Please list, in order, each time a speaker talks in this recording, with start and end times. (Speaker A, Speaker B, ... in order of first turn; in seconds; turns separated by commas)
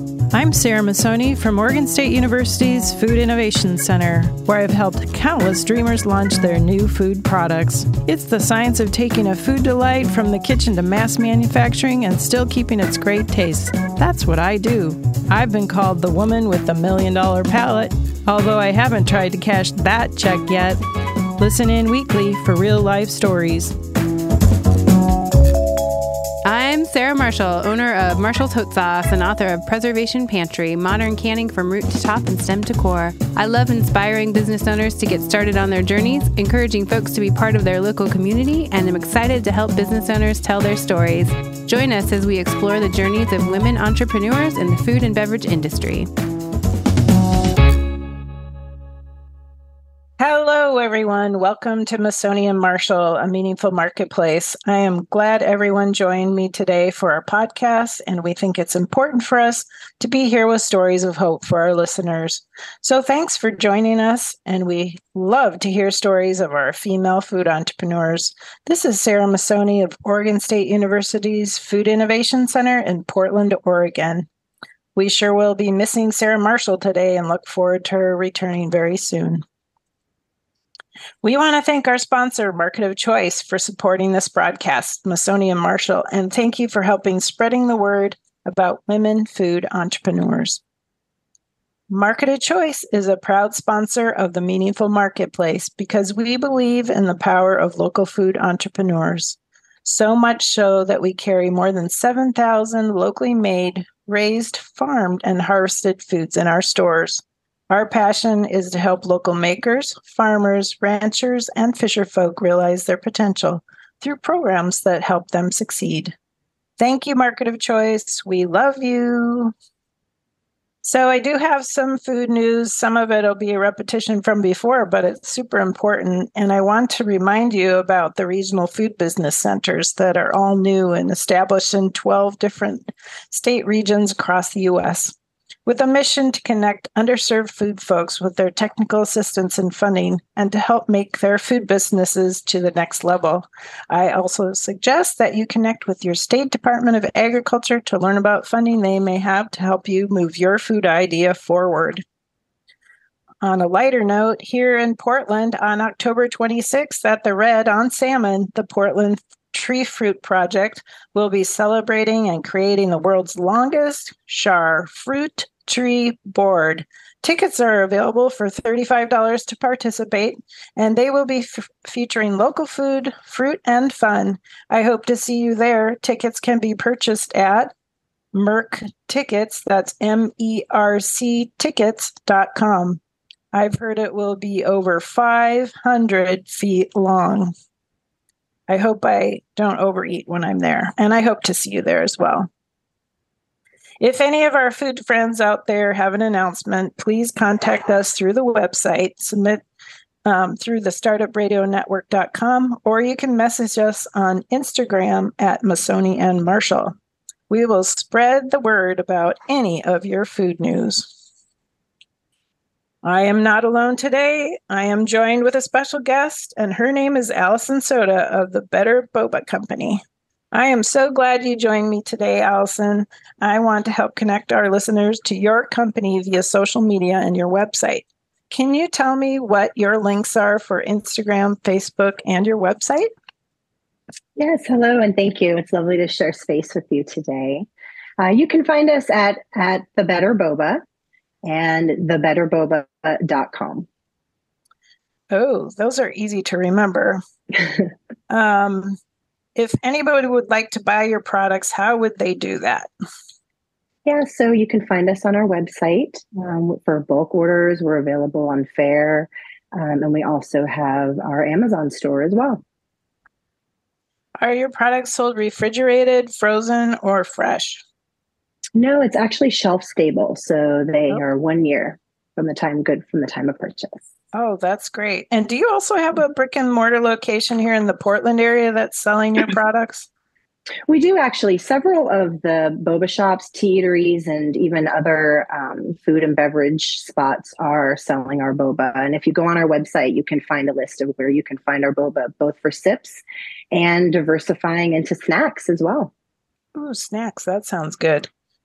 Speaker A: 0.3-20.8, Speaker A: 21.4-23.8, Speaker B: 26.4-46.1, Speaker A: 50.2-74.3, Speaker A: 75.0-79.4, Speaker A: 81.2-90.6, Speaker A: 91.9-116.2, Speaker A: 116.8-119.5, Speaker A: 120.8-135.2, Speaker A: 135.7-152.0, Speaker A: 153.4-177.7, Speaker A: 178.3-183.0, Speaker A: 183.5-187.5, Speaker A: 188.7-192.5, Speaker A: 194.0-199.6, Speaker A: 200.2-206.9, Speaker A: 207.5-211.1, Speaker A: 213.0-220.0, Speaker A: 220.5-233.1, Speaker C: 234.4-237.7, Speaker C: 238.2-240.8, Speaker C: 241.4-243.9, Speaker A: 245.3-247.2, Speaker A: 248.3-249.0, Speaker A: 249.6-252.9, Speaker C: 254.1-262.6, Speaker A: 264.4-267.8, Speaker C: 268.8-274.0, Speaker A: 274.3-280.1, Speaker C: 280.9-296.1, Speaker A: 296.8-298.3